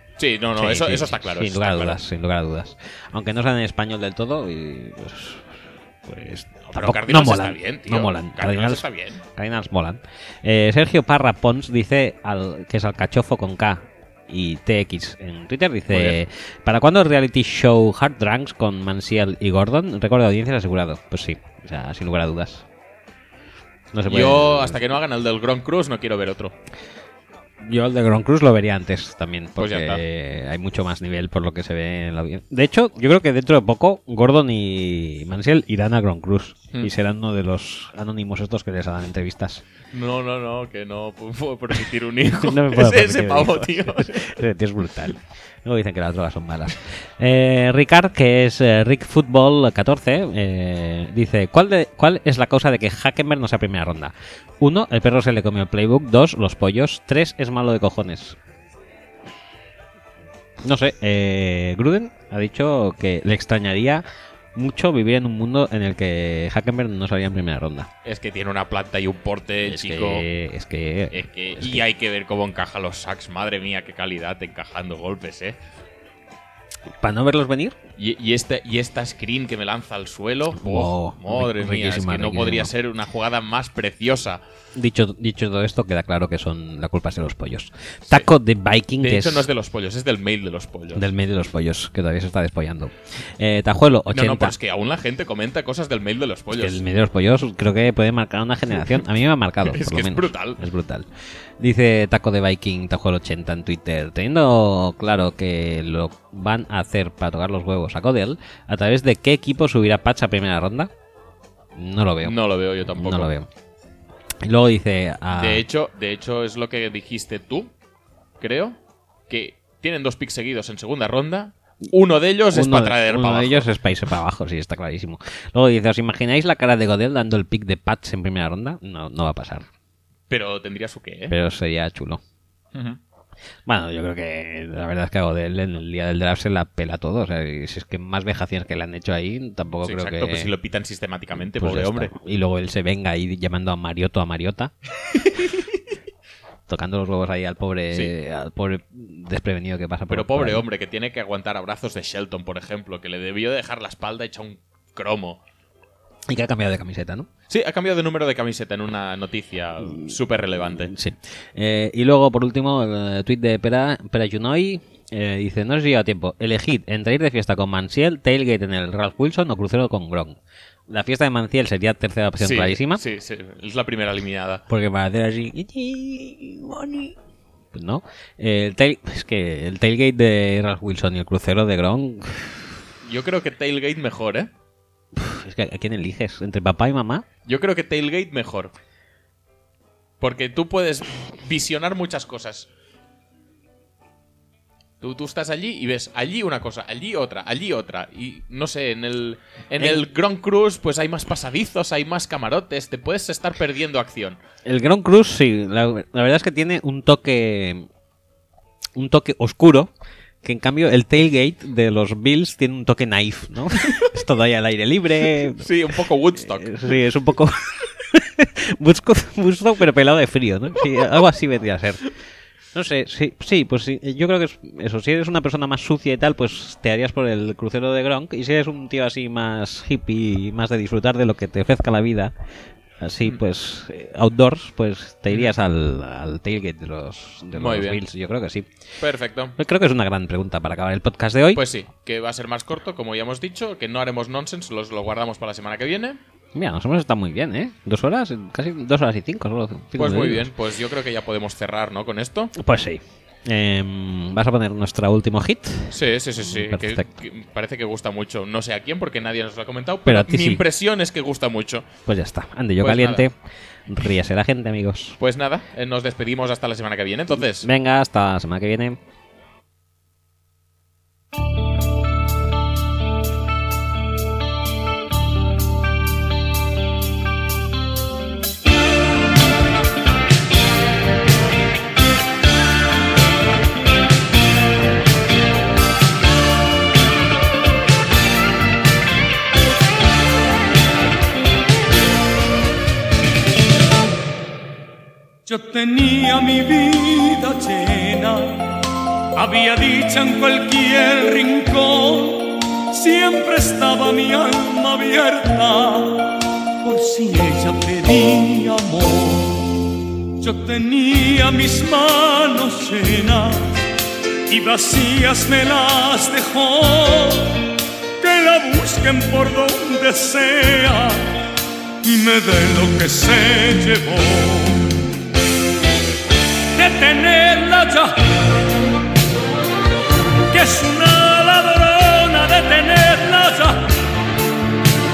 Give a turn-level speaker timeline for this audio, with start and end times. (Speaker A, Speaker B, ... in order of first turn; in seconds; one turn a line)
Speaker A: 0.2-2.0
Speaker B: 0.6-5.5
Speaker B: 6.0-22.6
Speaker A: 6.7-9.2
Speaker A: 15.9-16.2
Speaker B: 23.9-24.8
Speaker A: 24.1-26.5
Speaker B: 27.6-39.6
Speaker A: 29.6-30.0
Speaker A: 39.9-44.4
Speaker B: 42.2-58.4
Speaker B: 60.6-64.0
Speaker B: 64.5-67.9
Speaker A: 68.0-70.3
Speaker B: 69.7-71.8
Speaker A: 71.1-75.6
Speaker B: 77.0-77.8
Speaker A: 78.0-84.4
Speaker B: 80.5-82.7
Speaker B: 84.8-89.5
Speaker A: 89.0-91.1
Speaker B: 91.0-94.6
Speaker A: 94.1-96.8
Speaker B: 96.5-101.1
Speaker A: 99.6-100.7
Speaker B: 101.6-110.9
Speaker B: 111.7-112.4
Speaker A: 112.2-113.3
Speaker B: 113.0-113.5
Speaker B: 114.4-115.7
Speaker A: 115.4-117.7
Speaker A: 118.4-118.8
Speaker A: 119.3-123.7
Speaker B: 122.5-129.7
Speaker A: 130.3-131.3
Speaker B: 131.3-132.2
Speaker A: 132.7-133.0
Speaker B: 133.7-140.5
Speaker A: 139.8-142.1
Speaker B: 141.4-145.6
Speaker B: 146.7-150.6
Speaker A: 150.1-155.4
Speaker B: 156.3-157.3
Speaker A: 157.5-160.9
Speaker B: 159.8-173.0
Speaker A: 172.4-174.7
Speaker B: 174.7-177.2
Speaker B: 177.7-182.7
Speaker A: 183.0-184.5
Speaker B: 185.1-187.2
Speaker A: 187.5-188.7
Speaker A: 190.2-192.7
Speaker A: 195.0-204.4
Speaker B: 199.8-200.1
Speaker B: 204.7-207.9
Speaker B: 208.9-209.9
Speaker B: 210.4-222.1
Speaker A: 213.8-214.1
Speaker A: 215.4-217.0
Speaker B: 222.7-232.3
Speaker B: 233.0-238.7
Speaker A: 237.5-238.0
Speaker A: 239.0-239.6
Speaker B: 239.6-241.6
Speaker A: 241.5-246.2
Speaker B: 246.5-250.5
Speaker A: 250.0-252.5
Speaker B: 252.6-257.1
Speaker A: 255.9-261.9
Speaker B: 260.1-260.6
Speaker B: 262.1-263.4
Speaker A: 262.8-263.3
Speaker B: 263.9-265.2
Speaker A: 265.2-267.7
Speaker B: 267.4-269.0
Speaker C: 295.5-298.8
Speaker C: 299.4-309.7
Speaker C: 310.4-313.8
Speaker C: 314.5-317.7
Speaker C: 318.2-321.4
Speaker C: 322.0-325.0
Speaker C: 326.8-328.2
Speaker C: 330.5-333.9